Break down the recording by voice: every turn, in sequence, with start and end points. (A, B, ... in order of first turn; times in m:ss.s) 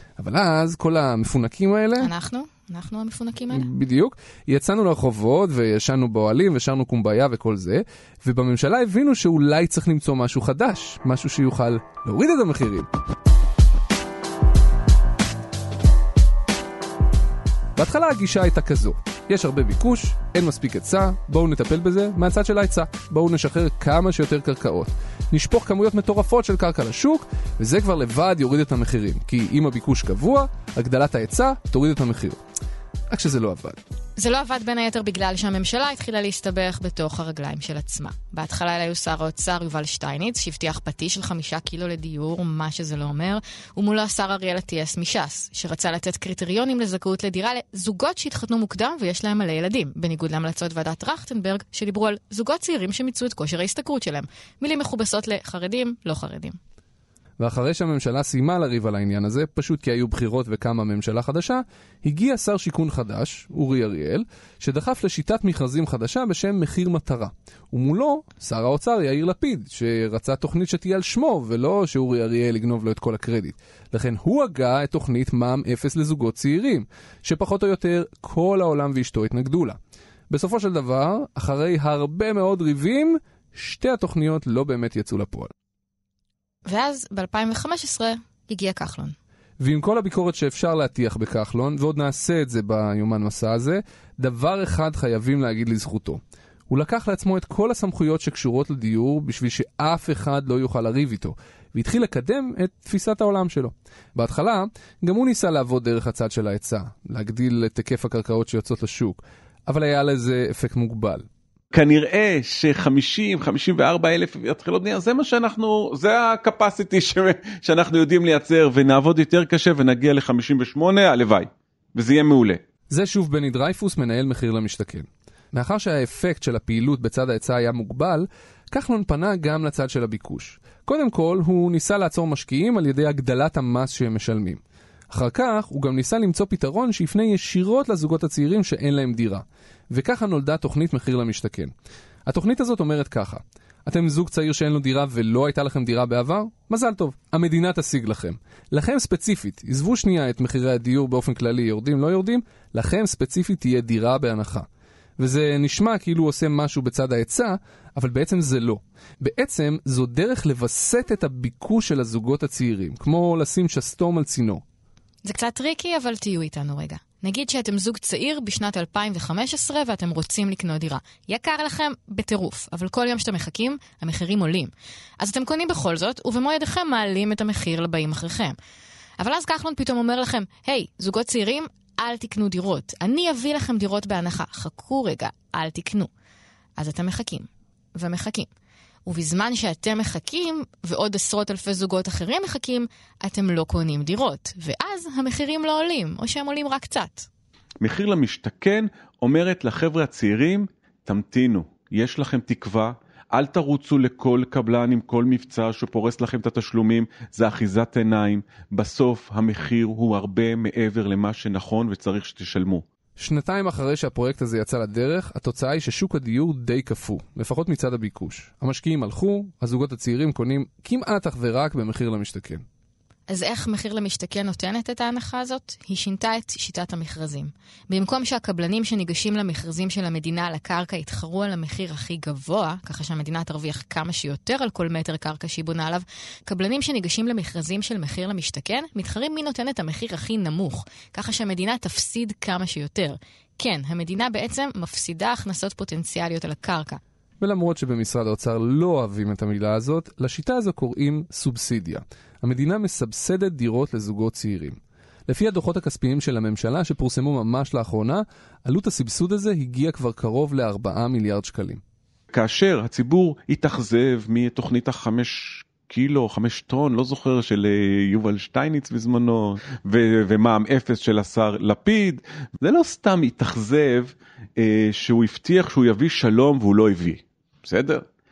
0:00.2-0:02.1 A
0:02.0-0:03.7 B
0:03.5-0:12.9 A
0:17.8-0:32.4 A
0:33.1-0:33.8 A
0:34.2-0:56.6 B
0:57.4-1:19.8 A
1:20.3-1:25.5 A
1:26.6-1:29.1 B
1:29.6-1:51.2 A
1:51.7-2:02.6 C
2:02.9-2:21.7 A
2:22.3-2:34.7 A
2:35.2-2:44.6 A
2:45.2-2:58.6 B
2:59.2-3:06.1 B
3:06.8-3:08.5 B
3:09.0-3:17.3 B
3:17.8-3:32.8 C
3:33.2-3:42.6 A
3:43.3-4:07.0 B
4:07.4-4:21.8 A
4:22.3-4:38.0 C